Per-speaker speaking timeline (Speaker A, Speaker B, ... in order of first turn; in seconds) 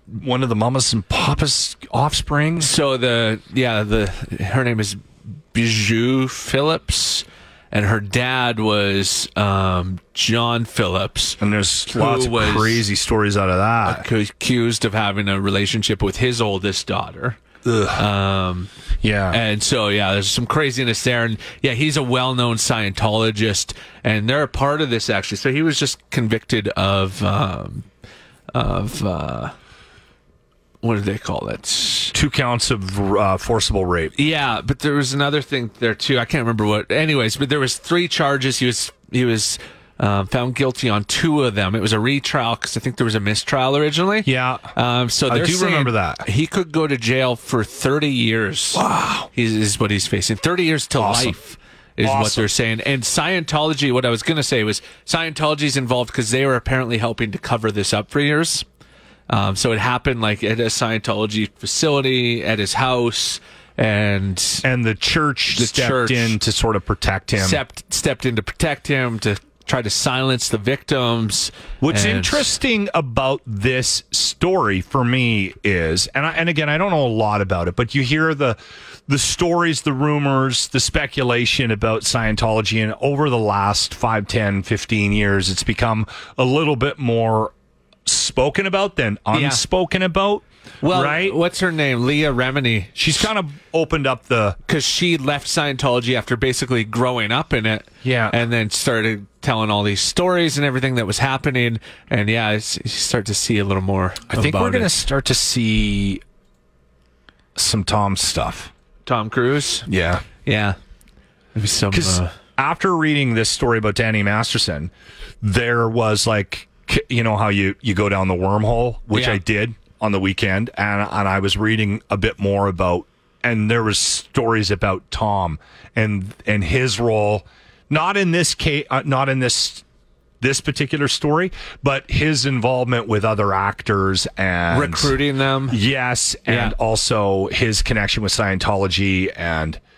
Speaker A: 0.2-2.7, 11.4-14.1, 17.6-18.1, 19.0-19.4, 32.1-34.1, 44.2-44.7, 45.3-46.2, 48.7-49.3, 51.0-51.4, 52.0-52.5, 64.6-67.6, 71.8-87.5, 88.1-91.4, 93.0-94.6, 98.0-98.4, 104.3-106.2, 107.5-108.7, 109.9-110.2, 111.9-129.8, 130.4-135.1, 135.7-139.8
Speaker B: 2.6-11.4, 11.9-12.8, 13.8-17.4, 17.9-18.7, 19.3-27.9, 28.5-29.5, 30.8-32.1, 34.2-58.6, 59.3-64.7, 65.5-66.4, 67.4-72.5, 89.3-89.6, 90.8-93.1, 94.7-104.9, 109.1-109.9, 110.5-110.8, 111.5-112.3, 119.1-119.4, 134.7-135.8, 136.5-136.8